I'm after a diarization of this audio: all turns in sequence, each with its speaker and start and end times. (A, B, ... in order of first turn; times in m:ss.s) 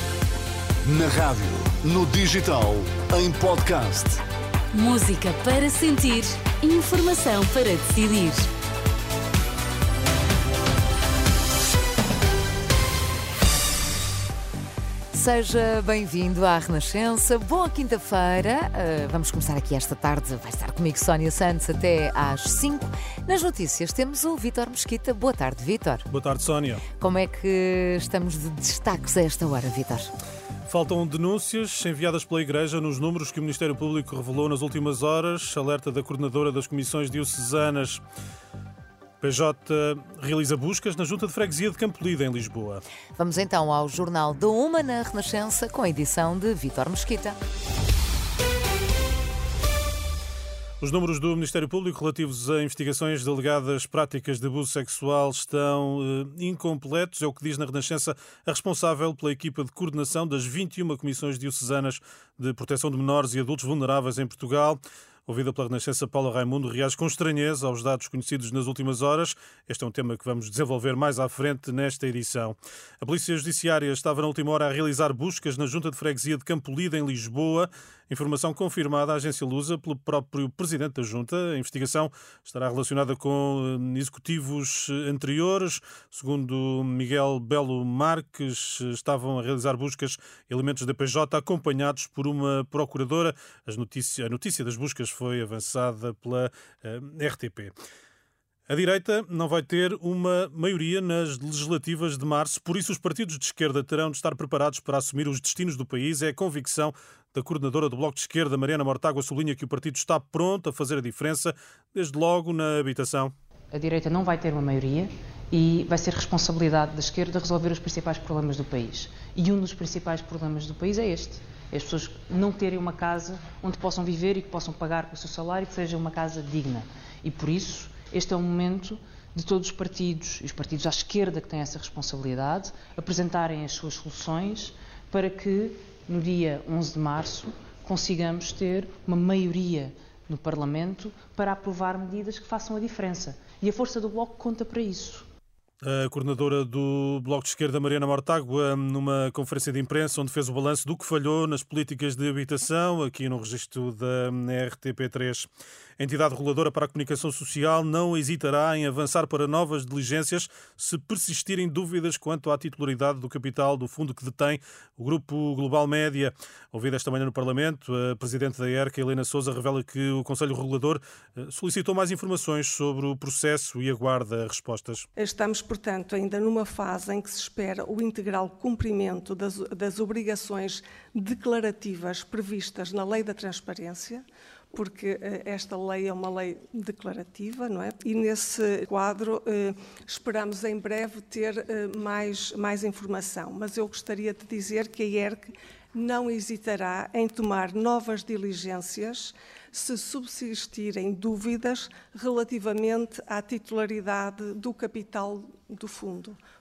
0:00.8-0:04.2 A
0:04.7-0:08.5 B
0:15.1-0:26.1 C
0:26.1-0:26.8 D
0:27.0-0:30.1 C
0:30.7-0:38.0 D
0:39.2-0:42.8 D
0:43.2-0:47.4 C
0:50.8-1:37.7 D
1:38.7-1:53.4 D
1:53.7-2:25.2 E
2:25.8-2:55.0 D
2:55.2-3:26.4 F